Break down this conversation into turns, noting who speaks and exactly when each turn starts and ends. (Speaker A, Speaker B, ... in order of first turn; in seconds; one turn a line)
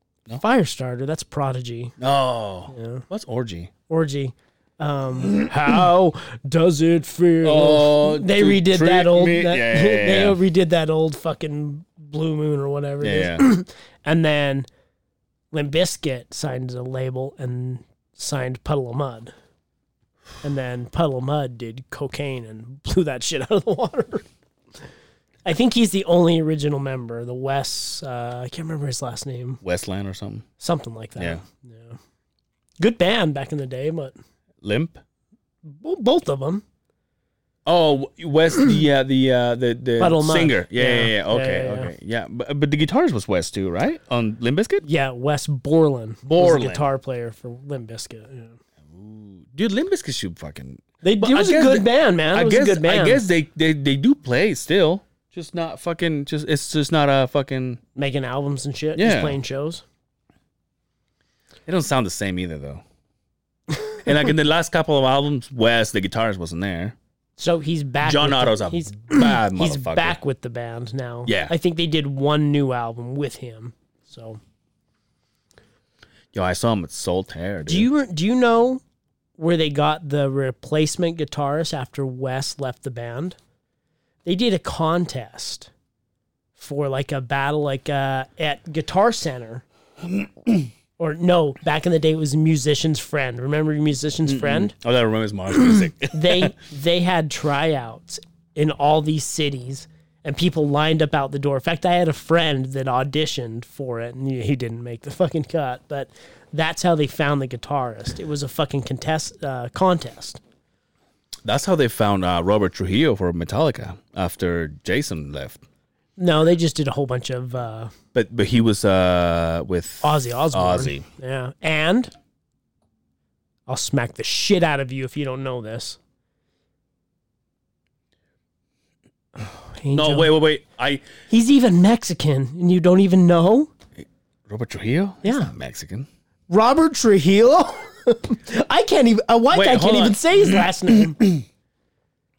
Speaker A: 0.3-1.9
Speaker B: 2.0-3.7
Speaker A: 2.7-3.0
Speaker A: 3.9-14.7
Speaker B: 7.4-10.4
Speaker B: 13.0-13.5
Speaker A: 15.5-19.3
Speaker A: 20.4-24.3
Speaker A: 25.4-29.6
Speaker B: 29.6-30.5
Speaker A: 30.6-32.0
Speaker B: 31.2-31.4
Speaker A: 32.8-34.1
Speaker B: 34.6-35.0
Speaker A: 35.6-36.6
Speaker B: 37.6-44.8
Speaker A: 40.0-41.9
Speaker A: 44.8-48.6
Speaker B: 46.2-46.8
Speaker B: 48.9-57.8
Speaker A: 51.0-53.2
Speaker A: 58.0-59.8
Speaker B: 59.0-59.4
Speaker B: 61.6-62.8
Speaker B: 64.0-67.0
Speaker A: 67.4-74.4
Speaker B: 68.0-70.2
Speaker B: 71.2-71.5
Speaker B: 76.3-77.9
Speaker A: 77.7-78.8
Speaker A: 79.4-83.4
Speaker A: 84.2-85.7
Speaker A: 86.6-89.6
Speaker A: 91.0-94.7
Speaker B: 94.2-96.5
Speaker A: 96.1-110.4
Speaker B: 111.4-115.6
Speaker A: 116.2-117.9
Speaker B: 118.1-121.0
Speaker A: 120.0-122.1
Speaker A: 123.7-126.0
Speaker A: 129.4-130.3
Speaker B: 129.9-131.0
Speaker A: 131.3-133.7
Speaker B: 134.5-136.1
Speaker A: 135.2-135.5
Speaker A: 136.5-141.2
Speaker B: 139.5-141.4